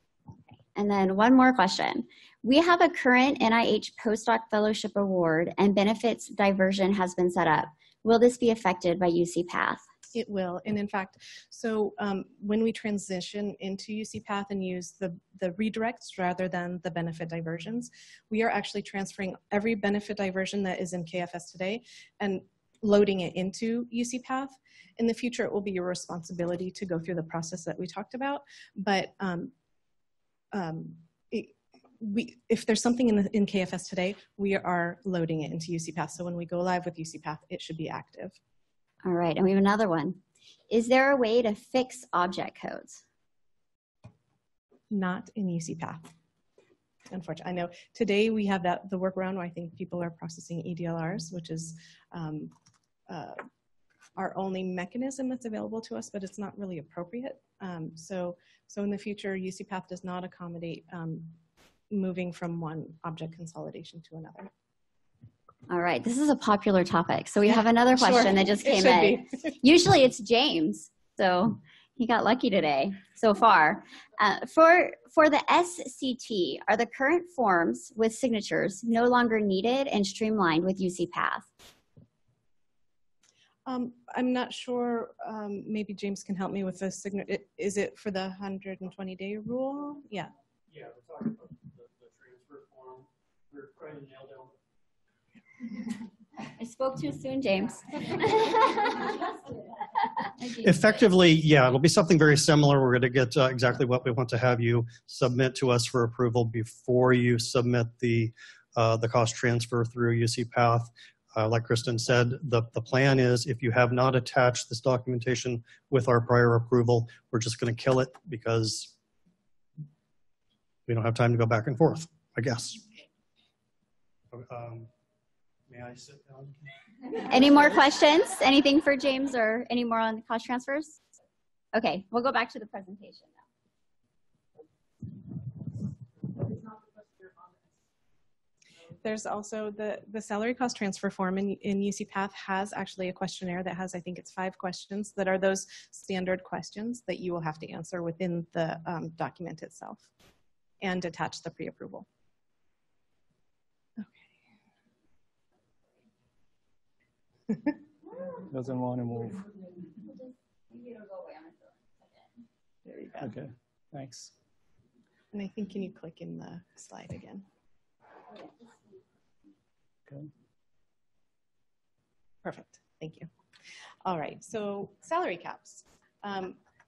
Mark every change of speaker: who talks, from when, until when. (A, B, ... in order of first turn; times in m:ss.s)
0:00.8-0:09.8 A
0:10.1-0:29.5 B
0:30.5-0:38.4 B
0:39.0-0:43.0 A
0:44.9-0:46.1 B
0:47.1-0:52.5 B
0:53.1-0:53.4 B
0:54.2-1:01.4 B
1:01.9-1:04.5 B
1:05.7-1:21.5 A
1:07.4-1:09.2 B
1:23.7-1:30.3 B
1:30.7-1:34.5 C
1:36.6-1:39.3 A
1:40.3-1:41.0 A
1:40.6-1:58.9 C
2:00.9-2:02.9 C
2:04.3-2:04.9 C
2:05.7-2:06.6 C
2:07.2-2:11.0 A
2:11.7-2:13.4 A
2:19.0-2:30.1 B
2:30.8-2:32.1 B
2:38.5-2:39.4 D
2:40.1-2:41.8 A
2:42.9-2:43.3 B
2:43.2-2:44.3 D
2:45.3-2:47.4 B
2:52.4-2:53.3 B
2:54.0-2:56.6 B